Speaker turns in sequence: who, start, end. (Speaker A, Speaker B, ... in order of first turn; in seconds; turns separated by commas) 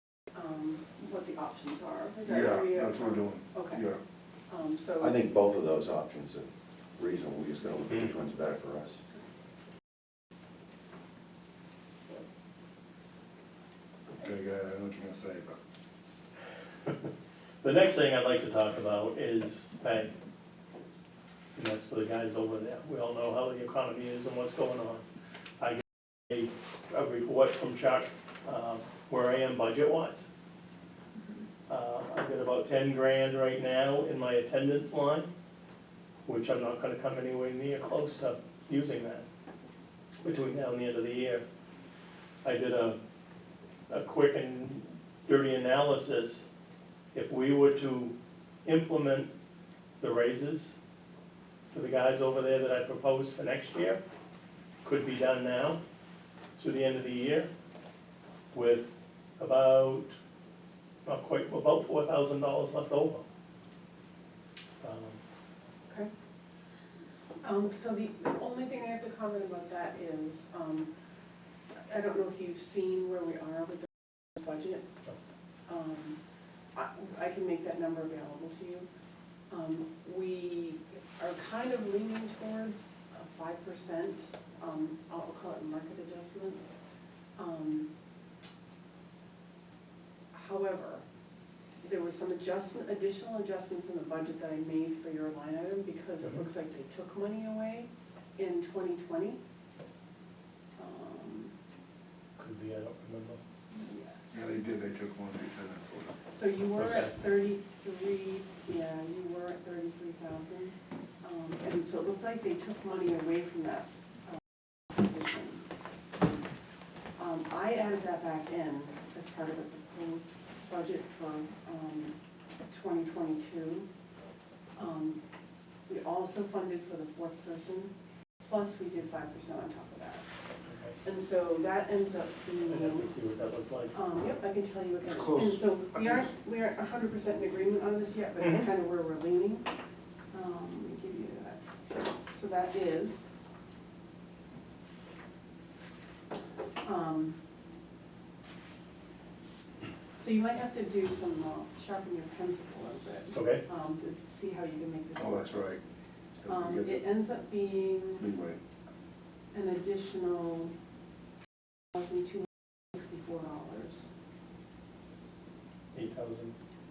Speaker A: 0.3-3.8, Speaker B: 2.3-4.0, Speaker A: 4.5-5.2, Speaker C: 5.0-9.0, Speaker B: 14.2-15.6, Speaker D: 17.6-20.1, Speaker D: 21.6-25.0, Speaker D: 25.6-30.3, Speaker D: 31.7-35.3, Speaker D: 36.3-39.2, Speaker D: 40.2-41.4, Speaker D: 42.4-43.0, Speaker D: 43.9-46.5, Speaker D: 47.1-48.1, Speaker D: 48.6-49.3, Speaker D: 50.0-50.8, Speaker D: 51.7-54.0, Speaker D: 54.8-55.8, Speaker D: 56.6-57.5, Speaker D: 58.5-60.2, Speaker D: 61.0-63.2, Speaker D: 64.8-65.2, Speaker A: 67.4-70.9, Speaker A: 71.9-74.8, Speaker A: 75.7-76.2, Speaker A: 76.8-78.9, Speaker A: 79.5-86.6, Speaker A: 87.4-87.9, Speaker A: 90.3-91.0, Speaker A: 91.8-99.4, Speaker A: 100.8-101.5, Speaker D: 102.4-103.4, Speaker A: 103.7-104.4, Speaker B: 104.3-106.1, Speaker A: 106.3-114.4, Speaker D: 106.8-107.1, Speaker A: 114.9-115.6, Speaker A: 117.2-122.2, Speaker A: 122.7-123.9, Speaker A: 124.8-125.2, Speaker A: 125.9-127.9, Speaker A: 128.4-130.2, Speaker A: 131.0-133.1, Speaker D: 132.7-133.9, Speaker A: 133.9-139.7, Speaker B: 135.2-136.2, Speaker A: 140.3-143.3, Speaker A: 146.8-147.4, Speaker A: 150.2-155.6, Speaker D: 153.3-153.6, Speaker B: 155.2-155.8, Speaker B: 156.4-157.1, Speaker A: 156.5-158.2, Speaker B: 158.2-158.6, Speaker A: 159.5-160.7, Speaker A: 161.9-164.1, Speaker D: 165.9-166.6